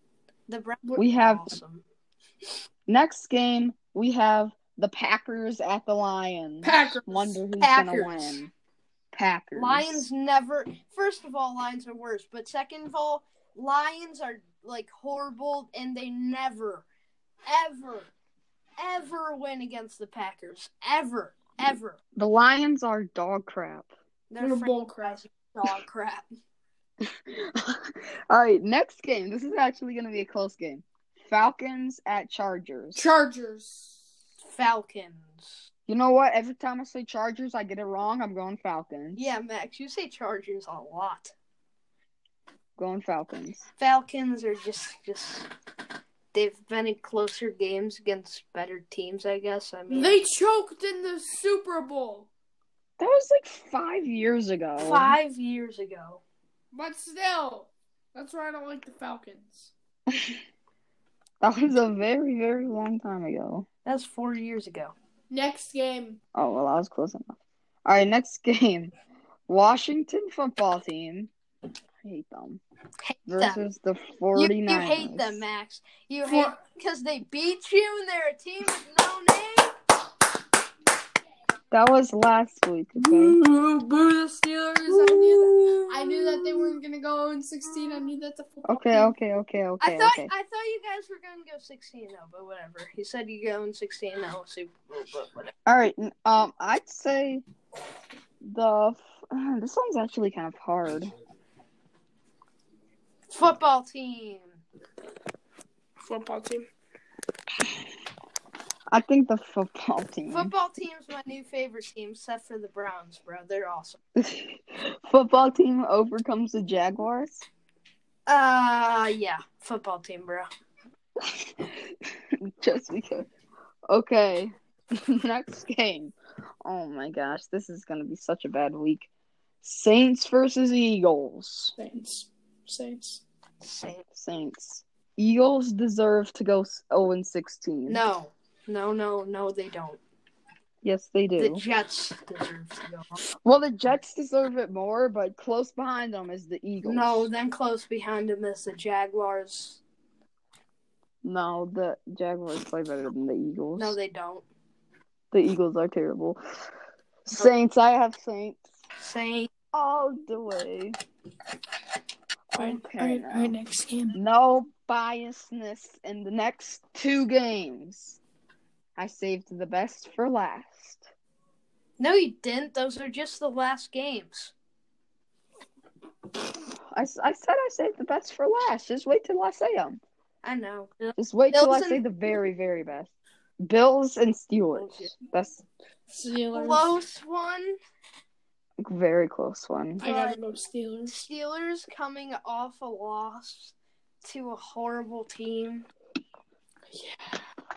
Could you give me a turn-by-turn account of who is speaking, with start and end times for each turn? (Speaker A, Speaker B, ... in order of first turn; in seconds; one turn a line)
Speaker A: 0.5-1.8
Speaker B: 1.0-1.5
Speaker B: 2.9-8.5
Speaker C: 6.6-7.4
Speaker A: 7.6-8.4
Speaker B: 9.1-10.1
Speaker A: 9.6-16.9
Speaker A: 17.5-18.1
Speaker A: 18.8-22.0
Speaker B: 22.2-23.9
Speaker A: 24.3-26.3
Speaker C: 24.4-25.2
Speaker B: 27.0-33.1
Speaker C: 33.0-34.0
Speaker A: 34.4-35.7
Speaker B: 35.9-39.2
Speaker A: 39.1-41.3
Speaker B: 42.8-43.7
Speaker A: 43.8-45.5
Speaker A: 46.3-50.2
Speaker C: 49.9-52.3
Speaker B: 53.0-55.2
Speaker A: 54.8-56.2
Speaker C: 56.7-59.7
Speaker B: 61.4-63.7
Speaker A: 63.9-64.9
Speaker C: 65.3-66.2
Speaker B: 66.3-68.9
Speaker B: 69.5-71.3
Speaker B: 72.0-72.6
Speaker A: 73.0-73.6
Speaker B: 73.3-75.4
Speaker A: 74.3-79.7
Speaker C: 76.3-76.6
Speaker B: 81.7-83.4
Speaker C: 83.0-89.1
Speaker A: 84.9-86.7
Speaker B: 88.7-90.3
Speaker A: 89.8-95.5
Speaker B: 95.7-97.4
Speaker B: 98.4-101.1
Speaker A: 103.3-104.6
Speaker C: 106.0-106.7
Speaker B: 108.9-110.5
Speaker A: 110.3-114.0
Speaker B: 114.2-117.5
Speaker A: 118.3-120.5
Speaker B: 121.2-123.3
Speaker B: 123.9-129.1
Speaker B: 129.6-131.7
Speaker C: 131.8-133.2
Speaker A: 133.6-134.1
Speaker B: 134.1-138.0
Speaker A: 137.9-140.0
Speaker B: 140.8-141.6
Speaker A: 141.4-143.2
Speaker B: 143.4-147.3
Speaker A: 146.8-149.8
Speaker B: 151.2-154.0
Speaker A: 153.8-154.5
Speaker B: 155.3-156.4
Speaker B: 157.3-158.7
Speaker A: 159.0-159.5
Speaker B: 159.7-161.0
Speaker B: 162.5-163.6
Speaker C: 162.6-164.2
Speaker B: 164.1-168.2
Speaker B: 169.0-171.1
Speaker A: 172.0-174.5
Speaker B: 176.7-180.0
Speaker A: 180.4-182.0
Speaker B: 181.2-185.7
Speaker A: 184.7-185.1
Speaker C: 186.1-187.0
Speaker A: 186.5-187.8
Speaker B: 188.8-190.0
Speaker C: 190.0-191.2
Speaker A: 190.0-190.4
Speaker A: 191.1-195.9
Speaker C: 196.9-197.3